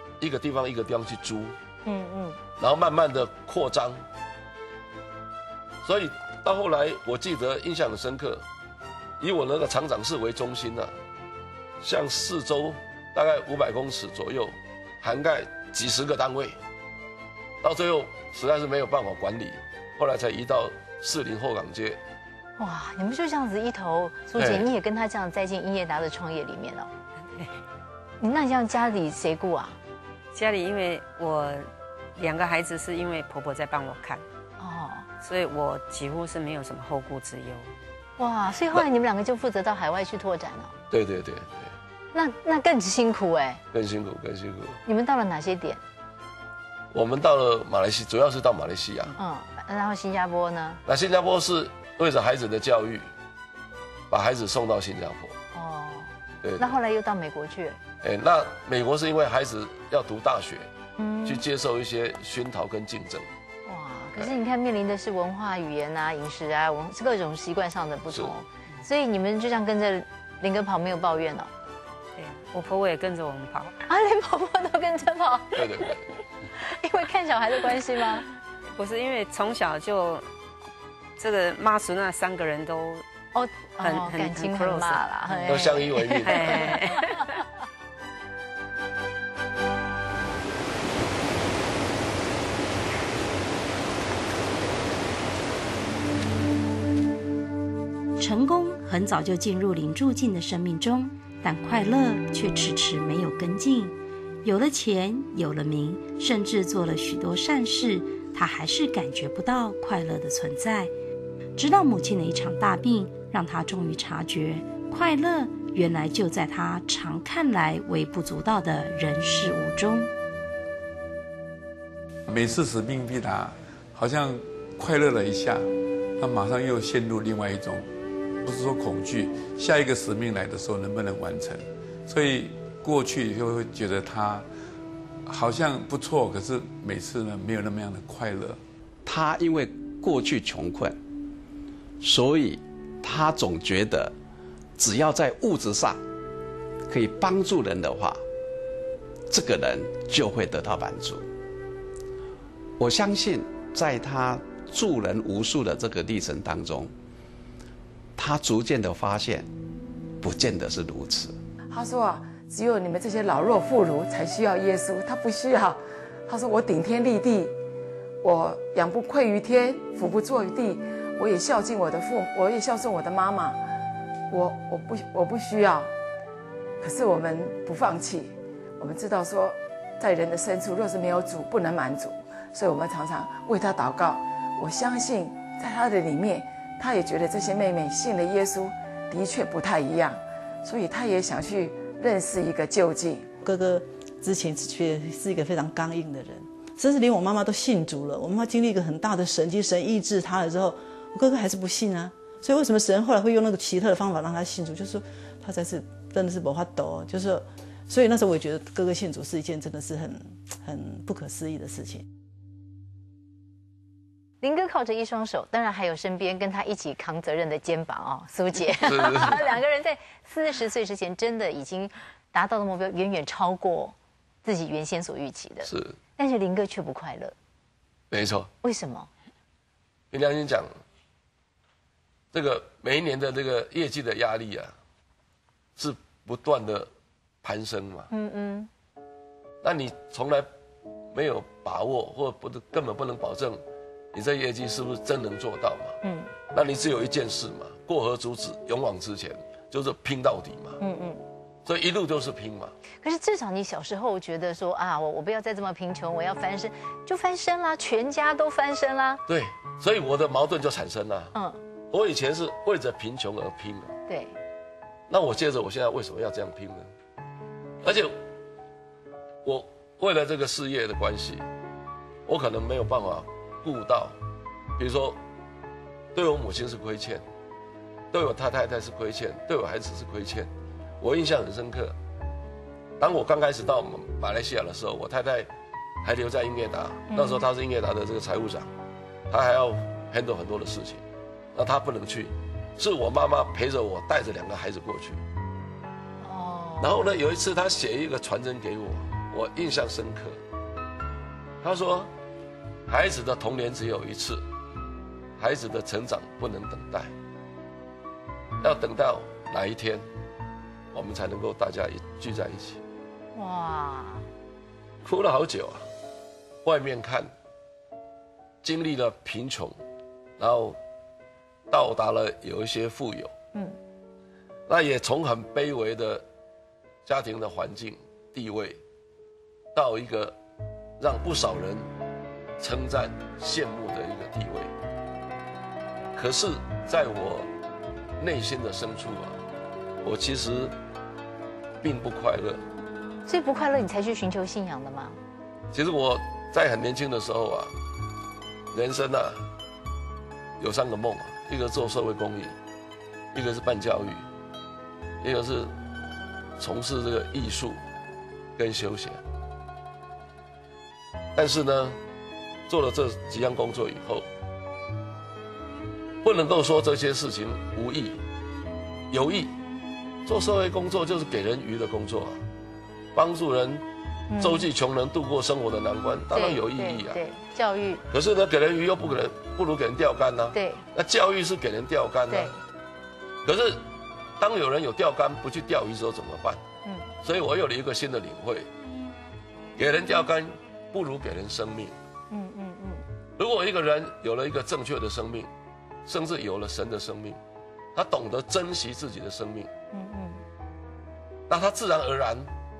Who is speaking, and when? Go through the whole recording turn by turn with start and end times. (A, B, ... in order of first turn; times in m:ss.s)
0:00.2-0:01.6 A
0:01.8-0:02.4 B
0:02.6-0:04.0 A
0:05.8-0:08.4 A
0:09.2-0:10.9 A
0:11.8-0:16.6 A
0:17.6-0:22.0 A
0:22.6-0:26.9 B
0:24.4-0:24.7 A
0:27.3-0:27.6 C
0:28.2-0:29.8 B
0:30.3-0:34.2 C
0:34.6-0:35.1 B
0:35.2-0:37.7 C
0:38.2-0:40.7 B
0:40.9-0:41.7 A
0:42.1-0:43.6 B
0:43.7-0:44.8 A
0:44.8-0:45.8 B
0:46.9-0:49.1 A
0:49.2-0:50.8 B
0:50.8-0:53.1 A
0:54.1-0:55.4 A
0:55.5-0:57.8 B
0:56.4-0:56.8 A
0:58.0-1:00.7 A
1:01.0-1:01.4 B
1:01.2-1:03.3 A
1:03.6-1:11.5 B
1:12.2-1:13.8 C
1:13.9-1:15.6 B
1:15.5-1:16.1 A
1:16.6-1:18.2 B
1:18.8-1:20.3 C
1:21.2-1:23.0 C
1:23.3-1:27.2 B
1:23.8-1:27.3 C
1:25.5-1:26.6 A
1:38.2-1:50.9 D
1:51.5-2:00.1 D
2:02.3-2:07.9 E
2:08.4-2:14.4 E
2:15.2-2:18.6 E
2:19.0-2:21.0 F
2:22.0-2:24.1 F
2:24.8-2:26.0 F
2:26.9-2:28.2 F
2:29.3-2:31.3 F
2:32.8-2:36.9 F
2:38.2-2:39.5 F
2:40.2-2:41.4 F
2:41.7-2:47.5 G
2:48.2-2:53.6 G
2:54.3-2:55.9 G
2:56.8-3:13.3 G
3:13.4-3:32.0 H
3:34.4-3:47.3 B
3:38.8-3:39.4 A
3:45.6-3:46.0 A
3:48.1-3:48.5 A
3:48.6-3:49.1 B
3:50.1-3:50.7 A
3:52.3-3:54.7 A
3:55.8-3:56.9 A
3:57.4-3:58.1 A
3:58.1-3:58.7 B
3:59.6-4:00.5 A
4:01.1-4:03.6 A
4:04.1-4:06.0 A
4:06.0-4:06.3 B
4:06.5-4:10.8 A
4:10.8-4:11.2 B
4:11.6-4:12.7 A
4:13.0-4:19.2 B
4:19.3-4:21.3 A
4:21.3-4:21.6 B
4:21.9-4:23.9 A
4:24.1-4:24.4 B
4:25.1-4:26.9 A
4:27.8-4:28.1 A
4:29.4-4:31.4 A
4:32.2-4:34.2 A
4:34.8-4:35.2 A
4:36.1-4:37.2 A
4:38.1-4:40.5 A
4:41.0-4:42.0 A
4:43.0-4:45.5 A
4:46.0-4:48.7 A
4:47.1-4:47.4 B
4:49.3-4:51.0 A
4:51.5-4:55.2 A
4:56.2-4:57.0 B
4:56.8-5:00.4 A
5:01.6-5:02.1 A
5:02.9-5:04.4 A
5:05.4-5:07.1 A
5:08.6-5:10.0 A
5:10.9-5:12.8 A
5:13.3-5:14.3 B
5:15.0-5:15.9 A
5:16.6-5:17.3 A
5:18.6-5:19.8 A
5:20.4-5:20.8 A
5:21.7-5:23.3 A
5:24.7-5:26.2 A
5:27.0-5:28.8 A
5:29.7-5:30.3 A
5:31.0-5:31.9 A
5:32.6-5:34.7 A
5:36.1-5:37.5 A
5:38.2-5:39.4 A
5:40.0-5:40.7 A
5:41.8-5:42.6 A
5:43.3-5:45.2 B
5:45.7-5:47.7 A
5:48.7-5:49.4 A
5:50.6-5:52.5 A
5:53.3-5:54.2 A
5:55.2-5:55.7 A
5:56.6-5:57.8 A
5:58.6-5:59.2 A
6:01.3-6:02.0 A
6:02.7-6:04.3 A
6:06.2-6:08.2 A
6:09.1-6:09.5 A
6:10.2-6:12.4 A
6:13.1-6:13.8 A
6:14.3-6:14.7 B
6:14.4-6:17.2 A
6:16.3-6:18.0 B
6:18.1-6:22.5 A
6:20.5-6:20.8 B
6:22.3-6:22.6 B
6:23.4-6:23.8 A
6:24.4-6:26.6 A
6:27.2-6:28.7 A
6:29.8-6:32.0 A
6:32.3-6:33.0 B
6:33.4-6:35.5 A
6:36.0-6:37.4 A
6:37.9-6:39.7 A
6:39.9-6:40.4 B
6:41.5-6:42.5 A